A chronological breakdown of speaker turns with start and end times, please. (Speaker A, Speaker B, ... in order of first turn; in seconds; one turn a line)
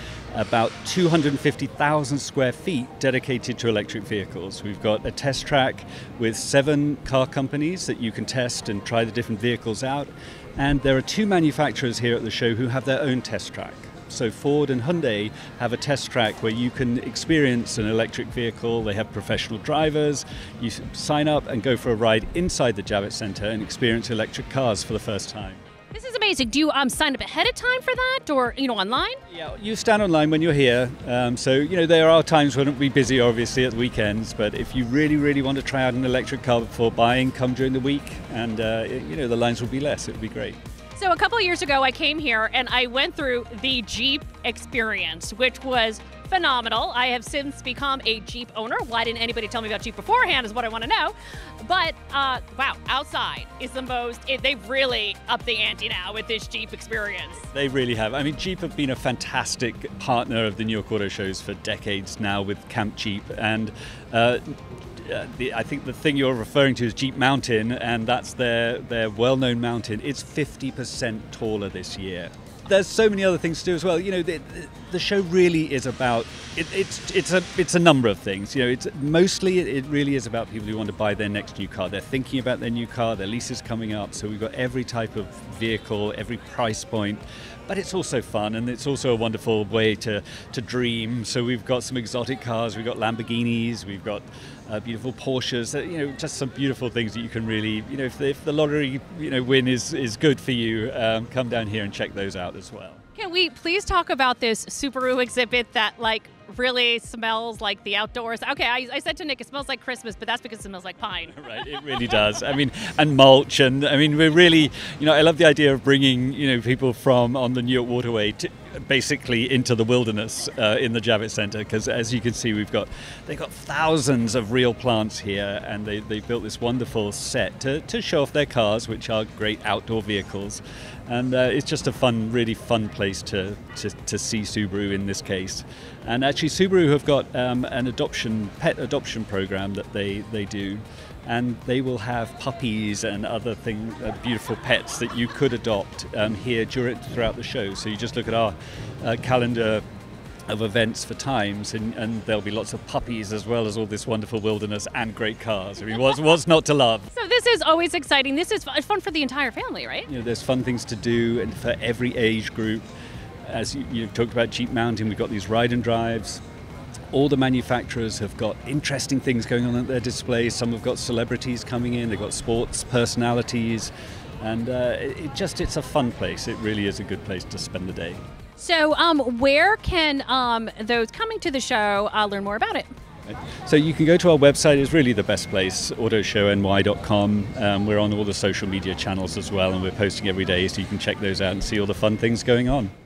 Speaker A: 0.3-25.6
Speaker B: 25.9-29.2
Speaker A: 29.3-40.6
Speaker B: 41.0-57.5
Speaker A: 57.5-103.0
Speaker B: 103.2-112.0
Speaker A: 111.3-149.8
Speaker A: 150.5-157.1
Speaker B: 157.1-160.1
Speaker A: 160.1-162.9
Speaker A: 163.5-166.4
Speaker A: 167.1-178.2
Speaker B: 178.6-182.9
Speaker A: 183.3-192.9